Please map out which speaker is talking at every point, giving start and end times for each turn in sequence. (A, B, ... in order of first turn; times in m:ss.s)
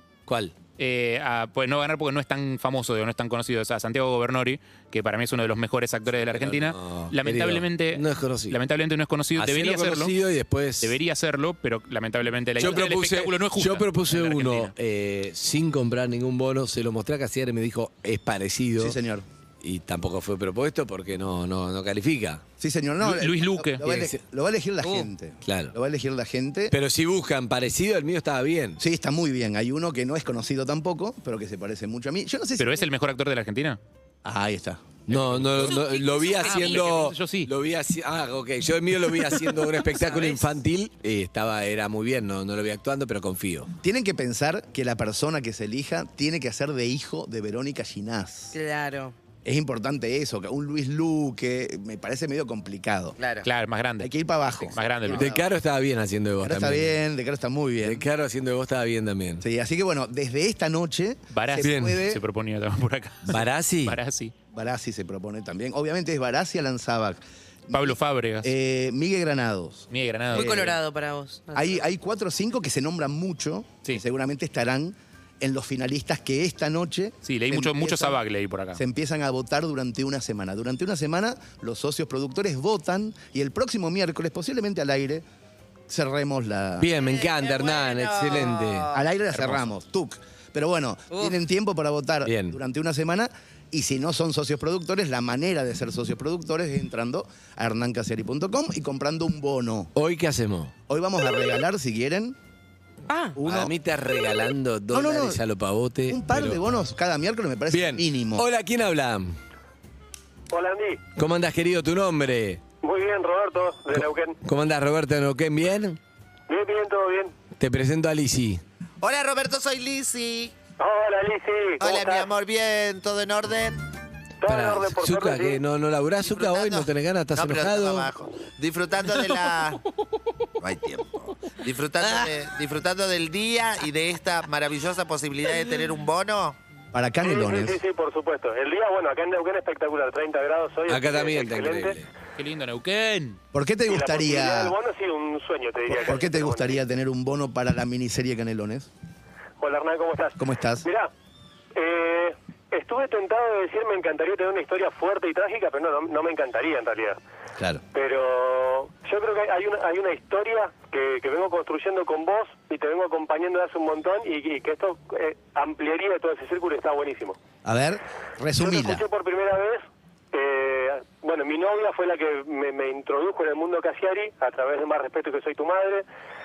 0:00.3-0:00.6 A
0:00.8-0:10.1 B
0:06.4-0:08.6 A
0:09.4-0:11.0 A
0:10.8-0:14.7 B
0:12.6-0:19.0 A
0:18.8-0:19.3 C
0:19.6-0:22.4 A
0:22.6-0:26.8 C
0:23.0-0:23.9 B
0:23.8-0:24.1 A
0:24.8-0:25.1 D
0:25.4-0:25.8 A
0:26.7-0:28.8 A
0:28.8-0:32.9 C
0:32.6-0:33.8 B
0:34.2-0:35.0 C
0:35.1-0:43.7 A
0:35.1-0:37.5 B
0:35.8-0:36.7 D
0:39.8-0:40.5 D
0:43.8-0:48.6 C
0:48.5-0:49.2 D
0:49.4-0:53.2 C
0:53.2-0:53.5 E
0:53.4-0:54.1 B
0:54.0-0:54.8 C
0:54.7-0:55.3 B
0:55.1-0:55.3 E
0:55.1-0:57.0 A
0:56.4-0:58.1 C
0:57.8-0:59.4 A
0:59.4-1:02.2 C
1:01.3-1:04.3 B
1:01.6-1:02.0 A
1:03.3-1:04.0 A
1:04.5-1:10.8 C
1:07.7-1:08.5 B
1:09.9-1:10.8 B
1:10.3-1:11.8 D
1:11.5-1:18.2 C
1:17.3-1:18.8 B
1:18.7-1:25.2 C
1:25.9-1:26.9 C
1:26.8-1:28.9 A
1:27.0-1:29.0 E
1:28.9-1:39.9 C
1:29.3-1:29.6 B
1:31.1-1:31.4 D
1:32.2-1:32.6 A
1:40.0-1:40.7 A
1:40.9-1:42.4 C
1:43.1-1:43.4 D
1:43.4-1:43.7 C
1:43.4-1:46.6 A
1:44.9-1:45.4 C
1:46.1-1:48.5 C
1:47.7-1:49.4 A
1:50.5-1:51.0 F
1:51.2-1:52.6 A
1:52.8-1:54.4 F
1:53.9-1:56.0 A
1:56.5-1:57.3 F
1:57.6-1:58.6 A
1:59.0-2:00.6 E
2:00.8-2:02.3 F
2:01.8-2:03.9 E
2:04.4-2:05.6 F
2:04.4-2:08.1 A
2:06.2-2:09.8 E
2:10.6-2:16.6 E
2:16.9-2:17.8 C
2:17.2-2:22.0 F
2:20.9-2:22.1 A
2:22.4-2:23.4 B
2:23.5-2:24.8 C
2:23.9-2:26.8 F
2:25.9-2:28.9 C
2:29.6-2:31.1 F
2:30.4-2:30.9 C
2:31.8-2:37.2 F
2:37.9-2:47.4 F
2:47.6-2:49.0 C
2:48.6-2:56.0 F